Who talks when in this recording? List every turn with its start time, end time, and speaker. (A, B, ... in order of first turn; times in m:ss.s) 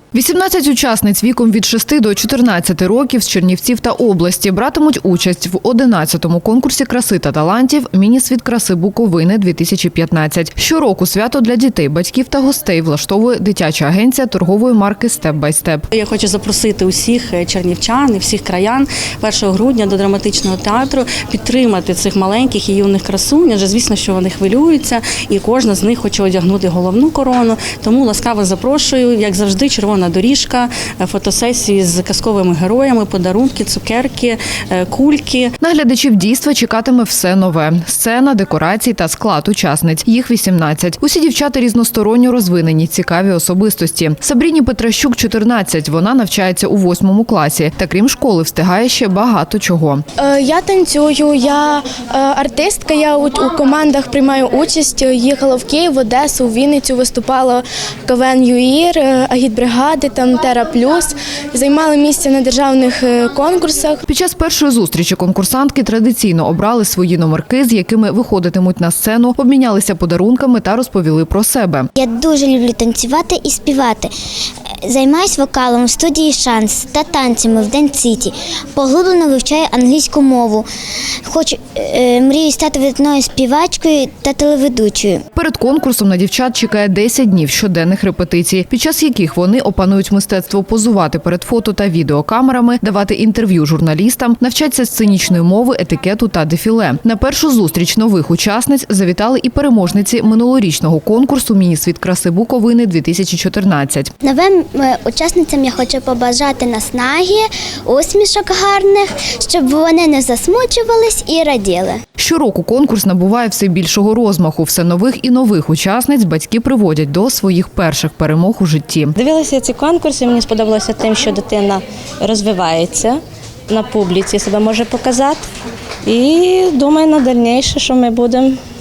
0:00.1-0:15.8 A
0:15.9-0:35.5 B
0:35.6-0:50.0 A
0:50.2-1:04.0 C
1:04.0-1:11.9 A
1:12.0-1:14.1 D
1:14.8-1:20.7 D
1:21.2-1:25.2 D
1:25.3-1:44.1 A
1:44.2-1:52.0 D
1:52.2-1:59.1 A
2:00.1-2:01.6 E
2:02.2-2:03.0 E
2:03.7-2:04.8 E
2:06.1-2:08.4 E